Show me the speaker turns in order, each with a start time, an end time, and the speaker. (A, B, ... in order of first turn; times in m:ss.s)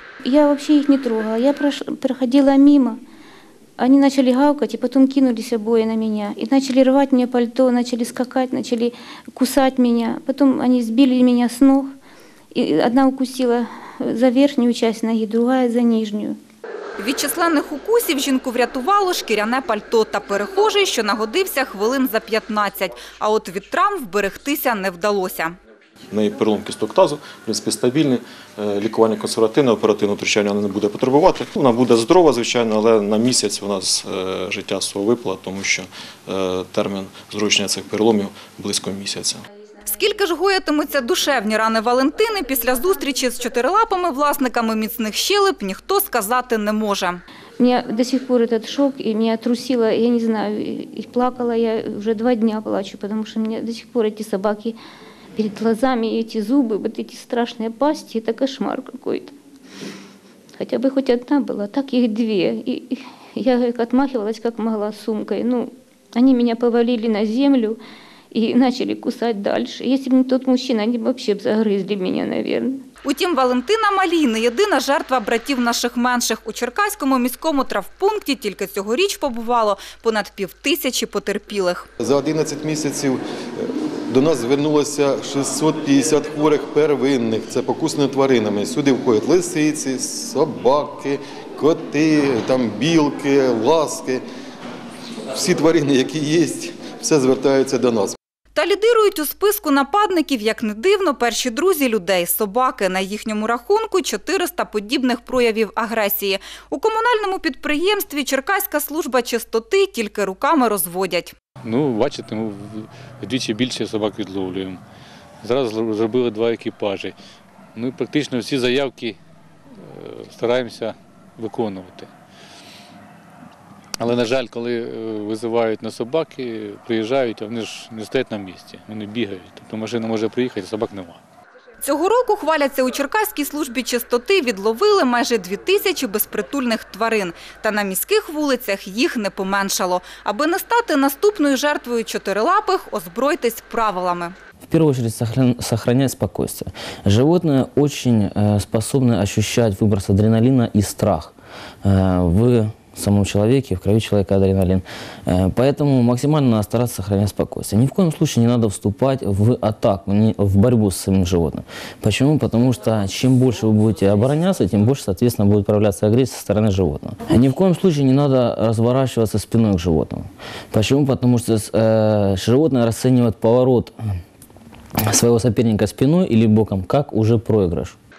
0:00.2-0:03.0 A
0:03.8-0:11.9 A
0:12.5-0:16.4 A
0:17.0-0:25.5 B
0:26.1-0:39.4 C
0:39.8-0:47.2 B
0:47.6-0:54.8 A
0:55.4-0:59.3 A
1:00.6-1:07.8 A
1:08.3-1:12.8 A
1:13.0-1:21.9 B
1:22.0-1:34.2 D
1:35.3-1:38.2 D
1:38.5-1:51.3 B
1:51.6-1:54.8 E
1:55.4-1:57.1 E
1:57.7-1:59.2 E
1:59.7-2:02.1 E
2:04.0-2:11.2 E
2:11.8-2:24.3 B
2:24.7-2:53.9 F
2:55.0-2:58.0 F